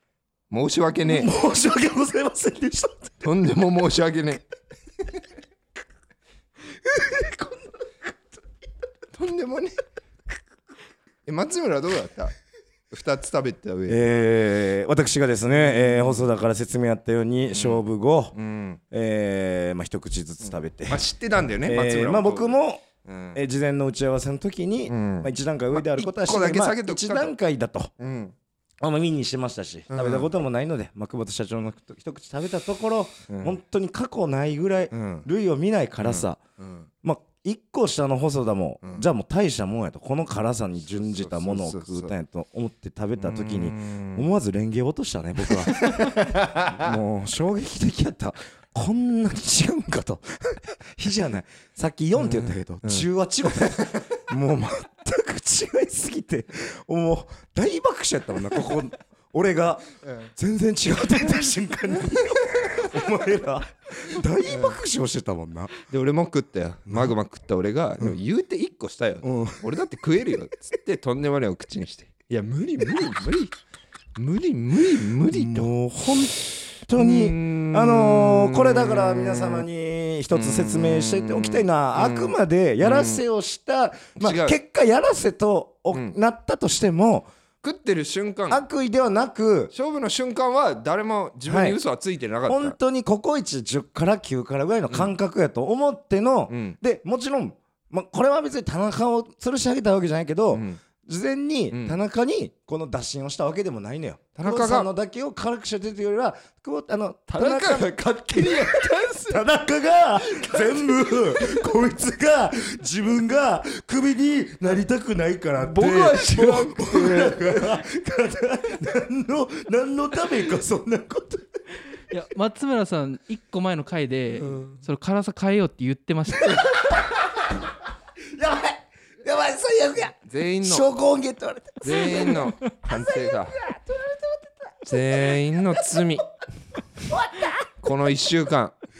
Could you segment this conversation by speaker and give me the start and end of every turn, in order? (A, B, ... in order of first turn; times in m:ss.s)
0:00.5-0:01.3 A
0:01.0-0:03.2 B
0:03.2-0:04.4 A
0:06.9-0:07.6 B
0:09.1-0:09.8 A
0:11.3-0:12.3 A
0:12.9-0:14.0 A
0:13.9-0:18.4 B
0:15.5-0:16.2 A
0:17.5-0:18.8 A
0:18.9-0:21.0 B
0:20.9-0:23.4 A
0:21.6-0:27.9 B
0:24.9-0:27.3 A
0:28.0-0:28.4 A
0:28.8-0:36.4 B
0:29.9-0:30.3 A
0:33.3-0:33.6 A
0:34.9-0:35.3 A
0:36.0-0:36.9 A
0:37.0-1:05.7 B
0:40.9-0:42.2 A
0:43.2-0:44.2 A
0:45.7-0:47.0 A
0:52.2-0:53.1 A
1:00.0-1:00.3 A
1:02.5-1:02.9 A
1:04.5-1:04.8 A
1:05.8-1:13.5 A
1:06.9-1:07.1 B
1:09.2-1:09.6 B
1:14.2-1:15.7 A
1:15.3-1:27.3 B
1:16.9-1:19.7 A
1:20.3-1:23.2 A
1:24.2-1:24.6 A
1:27.6-1:28.6 A
1:28.5-1:29.7 B
1:29.7-1:32.8 A
1:31.5-1:31.8 B
1:32.5-2:01.6 B
1:34.9-1:35.1 A
1:36.5-1:36.8 A
1:40.5-1:40.8 A
1:41.7-1:42.0 A
1:44.4-1:44.9 A
1:47.3-1:49.4 A
1:50.2-1:51.6 A
1:55.6-1:57.4 A
2:02.1-2:07.0 C
2:06.5-2:07.0 B
2:08.3-2:16.2 B
2:10.3-2:10.9 A
2:11.8-2:13.6 A
2:14.8-2:16.2 A
2:17.0-2:17.7 B
2:17.8-2:18.8 A